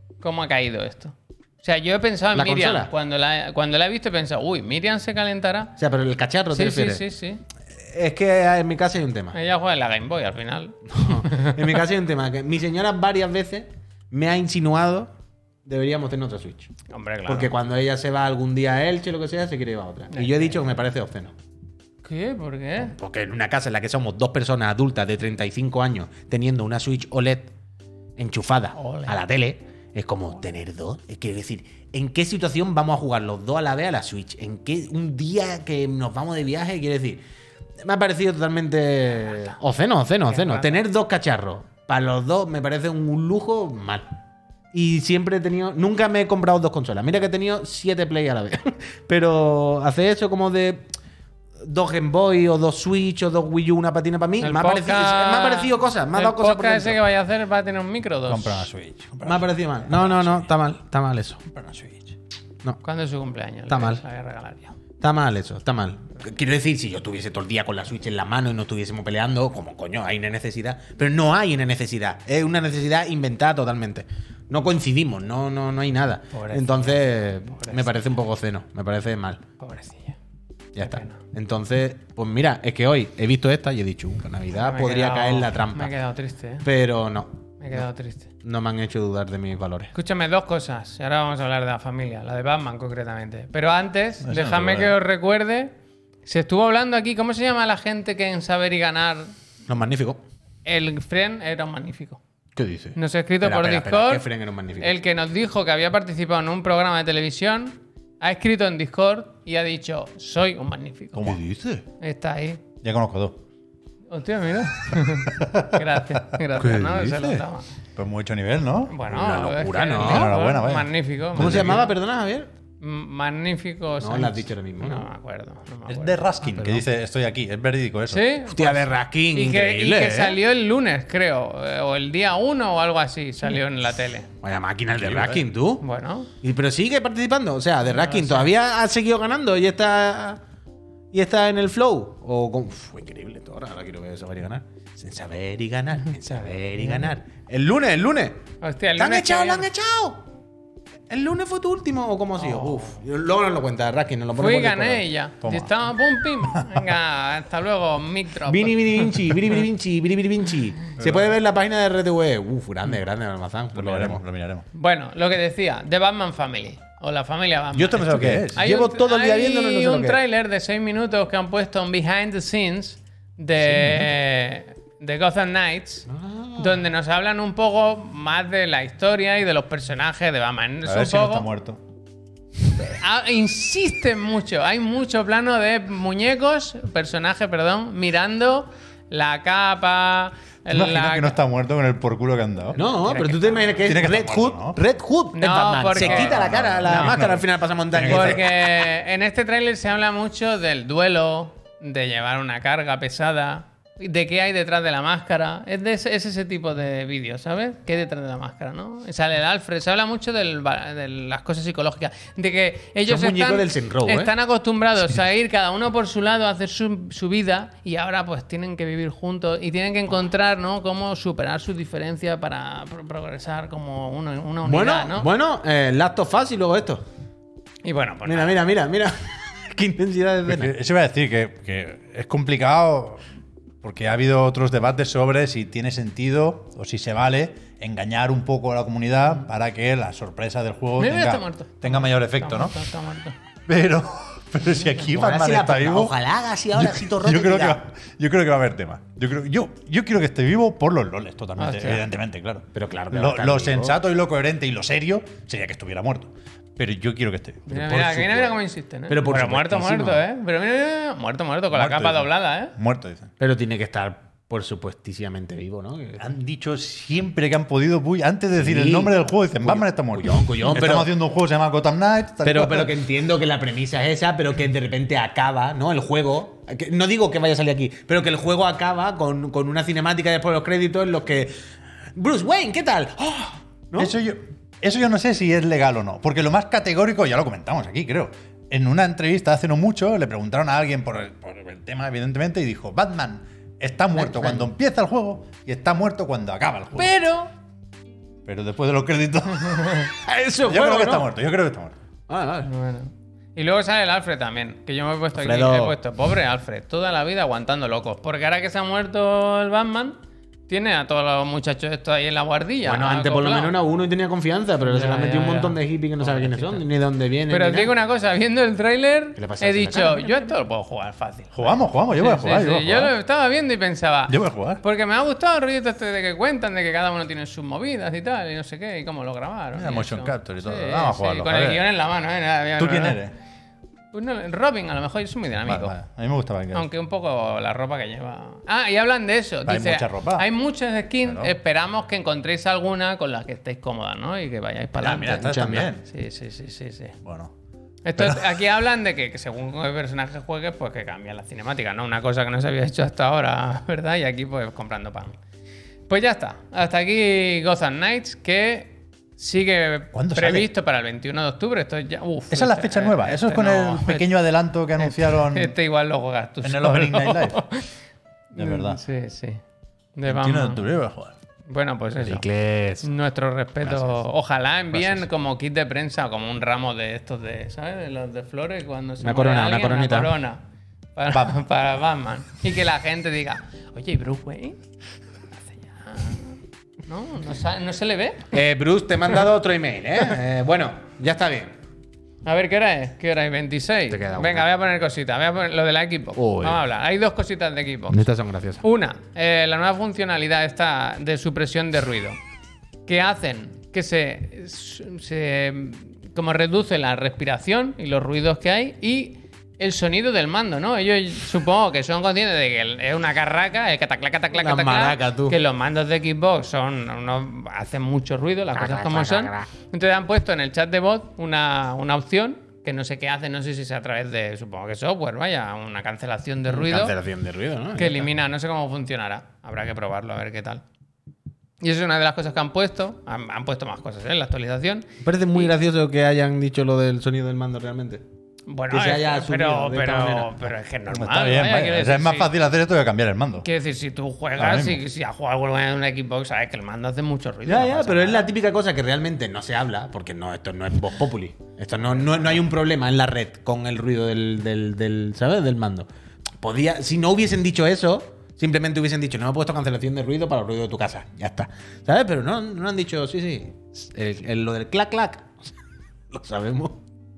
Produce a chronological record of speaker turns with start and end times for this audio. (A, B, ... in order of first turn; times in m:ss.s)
0:00.2-0:05.7 A
0:02.3-0:02.9 B
0:05.8-0:07.0 B
0:06.5-0:07.4 A
0:07.8-0:09.4 B
0:09.3-0:11.7 A
0:10.9-0:15.1 B
0:15.6-0:16.7 B
0:16.9-0:17.5 A
0:17.3-0:21.3 B
0:20.1-0:20.6 A
0:22.0-0:22.9 A
0:22.8-0:27.5 B
0:28.2-0:37.2 B
0:28.8-0:29.2 A
0:37.8-0:44.0 B
0:40.3-0:40.8 A
0:44.7-0:50.9 B
0:51.6-0:57.0 B
0:54.4-0:58.7 A
0:58.3-1:00.5 C
0:59.2-1:01.4 B
1:01.5-1:02.1 C
1:02.8-1:04.7 A
1:03.7-1:04.0 B
1:05.0-1:19.4 B
1:16.3-1:17.9 A
1:19.6-1:20.2 A
1:20.7-1:25.9 B
1:20.8-1:21.2 A
1:24.6-1:26.7 A
1:26.6-1:27.8 B
1:27.6-1:28.3 A
1:28.4-1:29.9 B
1:29.9-1:35.7 A
1:34.2-1:34.9 C
1:36.2-1:39.3 A
1:39.7-1:40.2 B
1:40.6-1:42.2 A
1:42.6-1:45.0 B
1:42.9-1:44.2 A
1:44.8-1:51.4 A
1:51.2-1:51.5 C
1:51.2-1:51.8 B
1:52.0-1:52.6 A
1:52.8-1:53.4 C
1:54.1-1:57.7 A
1:55.3-1:57.4 C
1:58.0-1:59.0 C
1:58.9-2:01.9 A
1:59.1-2:00.4 B
2:00.0-2:01.8 C
2:01.3-2:02.5 B
2:02.8-2:06.3 A
2:04.0-2:05.1 B
2:05.9-2:08.3 C
2:06.5-2:06.8 B
2:08.1-2:14.3 A
2:08.5-2:10.4 B
2:14.4-2:15.8 B
2:15.0-2:15.4 C
2:15.8-2:16.3 A
2:16.4-2:20.4 B
2:17.9-2:18.5 A
2:21.1-2:28.4 B
2:28.6-2:29.7 A
2:29.0-2:30.2 B
2:31.1-2:35.0 B
2:32.4-2:33.0 A
2:34.4-2:39.5 A
2:35.4-2:35.7 C
2:36.4-2:36.8 C
2:38.5-2:44.2 B
2:41.0-2:41.3 C
2:43.7-2:44.6 C
2:44.7-3:01.5 A
2:47.8-2:48.6 C
2:47.9-2:50.2 B
2:53.7-2:54.0 C
2:56.1-2:56.8 B
3:00.8-3:01.8 C
3:02.8-3:11.4 A
3:10.7-3:12.8 C
3:12.8-3:18.9 B
3:13.1-3:13.7 A
3:13.8-3:14.8 C
3:15.3-3:17.2 A
3:16.0-3:18.4 C
3:18.1-3:45.3 A
3:33.0-3:34.3 B
3:44.6-3:47.0 B
3:47.8-3:48.6 A
3:48.2-3:50.7 B
3:50.5-3:53.2 C
3:53.8-4:02.8 C
4:01.0-4:03.3 A
4:03.7-4:06.1 C
4:05.1-4:07.8 B
4:06.7-4:18.6 C
4:11.6-4:12.0 A
4:12.7-4:14.0 B
4:17.7-4:22.8 A
4:19.1-4:20.2 B
4:21.7-4:23.3 C
4:23.4-4:26.3 B
4:26.2-4:32.9 C
4:28.6-4:31.1 B
4:32.4-4:41.5 B
4:42.2-4:44.1 B
4:44.0-4:57.1 C
4:54.2-4:54.7 B
4:57.0-4:57.5 A
4:58.4-5:02.0 C
5:00.2-5:01.3 B
5:02.3-5:02.7 B
5:02.6-5:13.7 A
5:05.4-5:06.0 B
5:12.8-5:17.9 B
5:14.8-5:16.8 A
5:17.5-5:33.2 A
5:19.4-5:20.5 B
5:21.5-5:23.1 C
5:24.3-5:24.8 C
5:29.8-5:31.8 C
5:32.8-5:33.3 C
5:34.1-5:36.0 A
5:35.6-5:36.9 C
5:36.7-5:47.2 A
5:39.6-5:40.5 C
5:41.2-5:41.5 C
5:45.0-5:46.0 C
5:45.3-5:45.9 B
5:47.2-5:47.5 C
5:48.0-5:55.4 A
5:48.2-5:48.5 C
5:56.1-6:04.3 A
6:00.1-6:00.7 C
6:02.5-6:05.7 C
6:05.0-6:07.9 A
6:06.6-6:07.6 C
6:08.5-6:09.0 C
6:08.5-6:09.6 A
6:10.2-6:10.8 A
6:10.3-6:11.4 C
6:11.7-6:12.4 A
6:12.2-6:13.1 B
6:13.0-6:20.6 A
6:14.9-6:15.3 C
6:19.2-6:20.3 B
6:21.2-6:24.8 A
6:21.3-6:21.6 C
6:25.6-6:28.5 A
6:28.5-6:31.7 B
6:32.4-6:38.3 A
6:34.1-6:34.7 B
6:36.4-6:36.8 B
6:38.1-6:38.8 B
6:38.8-6:42.4 A
6:43.1-7:07.1 A
6:54.5-6:55.6 B
6:58.7-6:59.7 B
7:06.7-7:08.3 B
7:08.0-7:10.8 A
7:11.8-7:15.7 A
7:15.2-7:18.2 B
7:18.7-7:22.5 A
7:18.9-7:20.5 B
7:21.1-7:23.7 C
7:23.6-7:28.5 A
7:24.6-7:25.0 C
7:27.6-7:36.1 B
7:36.6-7:45.5 B
7:46.3-7:47.0 B